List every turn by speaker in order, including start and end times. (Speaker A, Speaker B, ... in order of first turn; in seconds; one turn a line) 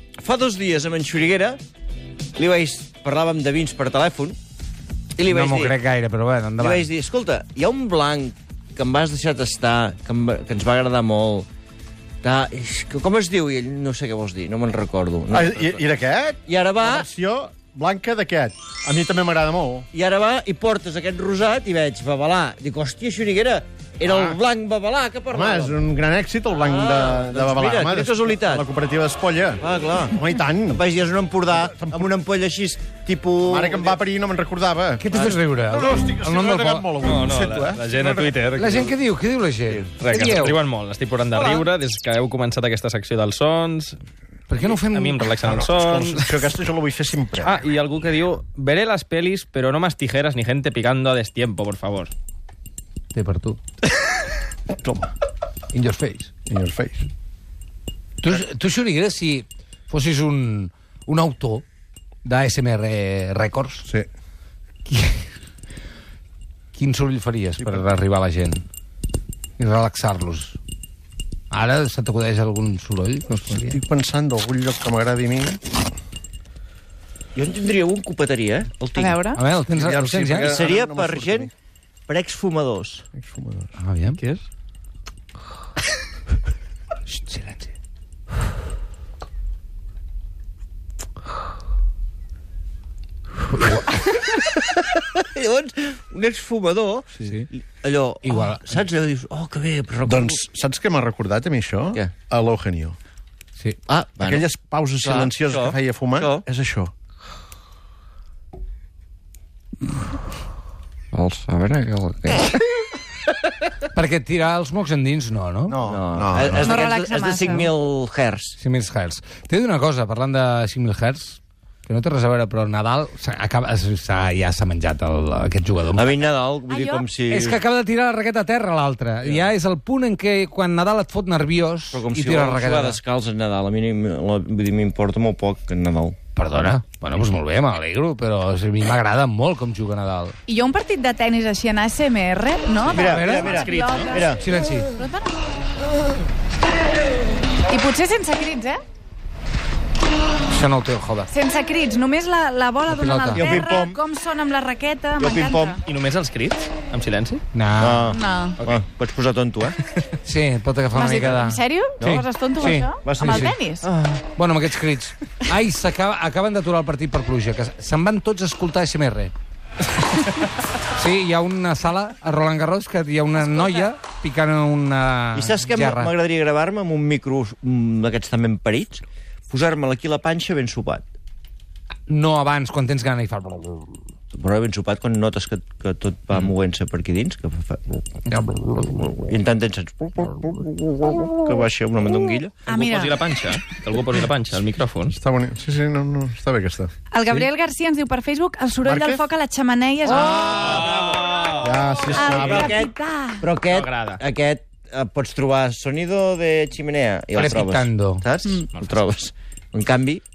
Speaker A: 0.2-1.6
Speaker A: 2.4-4.4
Speaker A: 5.2-5.7
Speaker B: 5.3-6.9
Speaker A: 6.6-11.5
Speaker A: 12.2-15.8
Speaker C: 15.3-19.9
Speaker A: 16.5-17.1
Speaker A: 19.9-25.8
Speaker C: 24.0-24.4
Speaker C: 25.3-30.8
Speaker A: 26.5-28.6
Speaker A: 29.6-34.0
Speaker C: 31.6-32.1
Speaker C: 33.5-37.9
Speaker B: 35.0-36.9
Speaker D: 37.0-38.9
Speaker B: 38.6-40.6
Speaker D: 40.0-44.0
Speaker B: 44.5-45.4
Speaker D: 44.6-46.4
Speaker C: 45.6-47.5
Speaker D: 47.4-52.1
Speaker B: 53.1-53.6
Speaker B: 55.7-56.3
Speaker C: 56.5-57.0
Speaker B: 58.2-61.6
Speaker B: 62.2-63.9
Speaker B: 64.8-65.3
Speaker B: 66.7-68.6
Speaker B: 69.6-70.6
Speaker B: 71.5-73.8
Speaker C: 73.5-75.8
Speaker A: 77.3-79.2
Speaker E: 79.0-79.4
Speaker B: 79.3-80.5
Speaker C: 79.7-81.5
Speaker A: 80.4-81.5
Speaker A: 82.1-83.0
Speaker C: 83.1-83.7
Speaker B: 83.8-84.2
Speaker B: 87.1-87.7
Speaker B: 93.5-94.1
Speaker A: 94.1-100.4
Speaker B: 98.2-98.7
Speaker C: 100.0-103.0
Speaker A: 103.9-104.4
Speaker C: 104.2-106.9
Speaker A: 105.0-106.4
Speaker A: 111.1-112.6
Speaker B: 113.9-115.8
Speaker C: 115.7-116.8
Speaker A: 115.8-118.5
Speaker E: 116.6-117.7
Speaker B: 118.6-126.1
Speaker A: 125.9-127.6
Speaker E: 126.7-127.0
Speaker B: 127.3-133.0
Speaker A: 129.2-129.5
Speaker A: 131.9-136.7
Speaker B: 136.3-140.4
Speaker E: 140.5-145.4
Speaker B: 142.9-143.8
Speaker A: 142.9-144.4
Speaker D: 143.7-144.1
Speaker B: 144.4-144.9
Speaker E: 147.7-148.8
Speaker B: 150.5-151.3
Speaker E: 151.3-155.8
Speaker B: 152.8-153.6
Speaker A: 153.3-154.0
Speaker A: 155.2-155.8
Speaker D: 155.8-157.4
Speaker B: 157.5-158.2
Speaker A: 157.8-159.8
Speaker E: 158.1-158.6
Speaker B: 160.2-163.6
Speaker E: 160.9-163.9
Speaker A: 162.0-164.2
Speaker B: 164.3-169.3
Speaker B: 170.9-176.1
Speaker A: 175.3-181.0
Speaker B: 182.1-183.9
Speaker A: 184.3-192.6
Speaker E: 192.7-193.3
Speaker D: 192.7-195.1
Speaker C: 195.1-196.9
Speaker E: 197.1-200.6
Speaker C: 198.8-199.2
Speaker A: 200.1-201.5
Speaker D: 200.5-201.7
Speaker C: 201.6-202.8
Speaker E: 202.1-203.5
Speaker A: 202.1-210.2
Speaker D: 202.3-202.7
Speaker D: 203.6-204.2
Speaker B: 207.3-208.2
Speaker D: 208.7-209.1